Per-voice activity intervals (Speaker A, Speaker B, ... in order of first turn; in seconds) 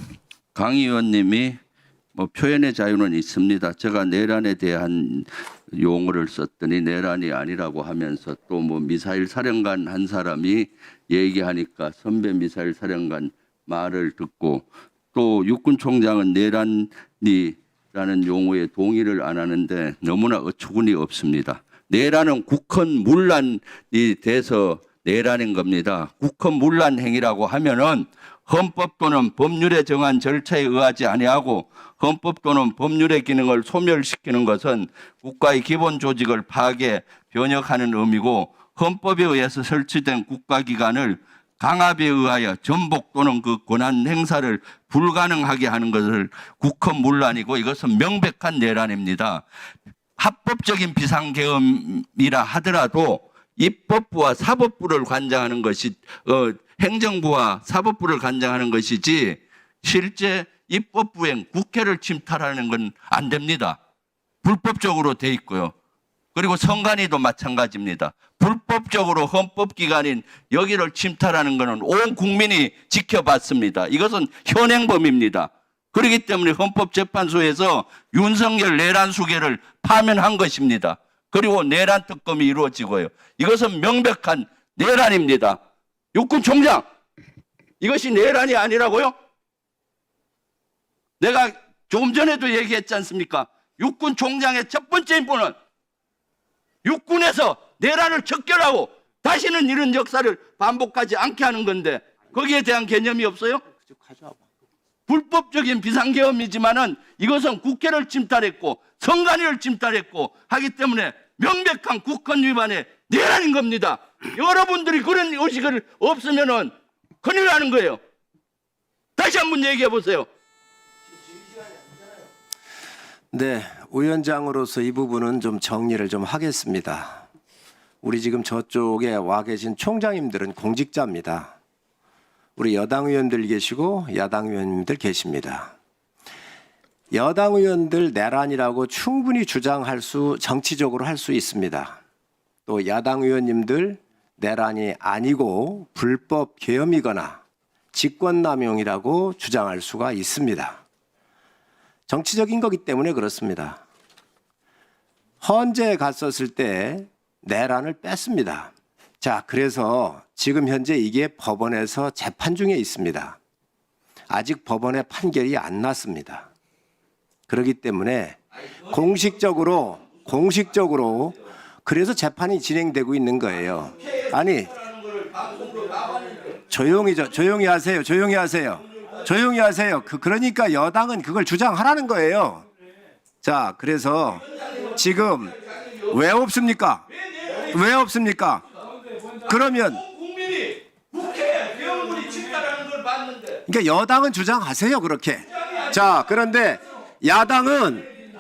Speaker A: 0.5-1.6, 2.1-49.4, 50.2-63.8, 64.4-65.7, 66.3-85.6, 86.1-86.8, 87.8-89.1, 91.2-95.5, 96.8-103.6, 105.1-118.0, 119.2-120.3, 174.0-176.6, 185.7-186.0, 187.4-187.7, 190.0-193.6
Speaker B: 104.0-104.4, 123.3-127.2, 128.0-131.6, 132.6-135.7, 137.1-142.0, 142.7-147.4, 147.9-150.8, 152.1-153.8, 155.4-163.4, 164.3-166.5, 167.5-174.7, 176.7-182.7, 183.4-185.6, 186.1-187.1, 187.6-188.6, 189.4-190.0, 193.7-198.1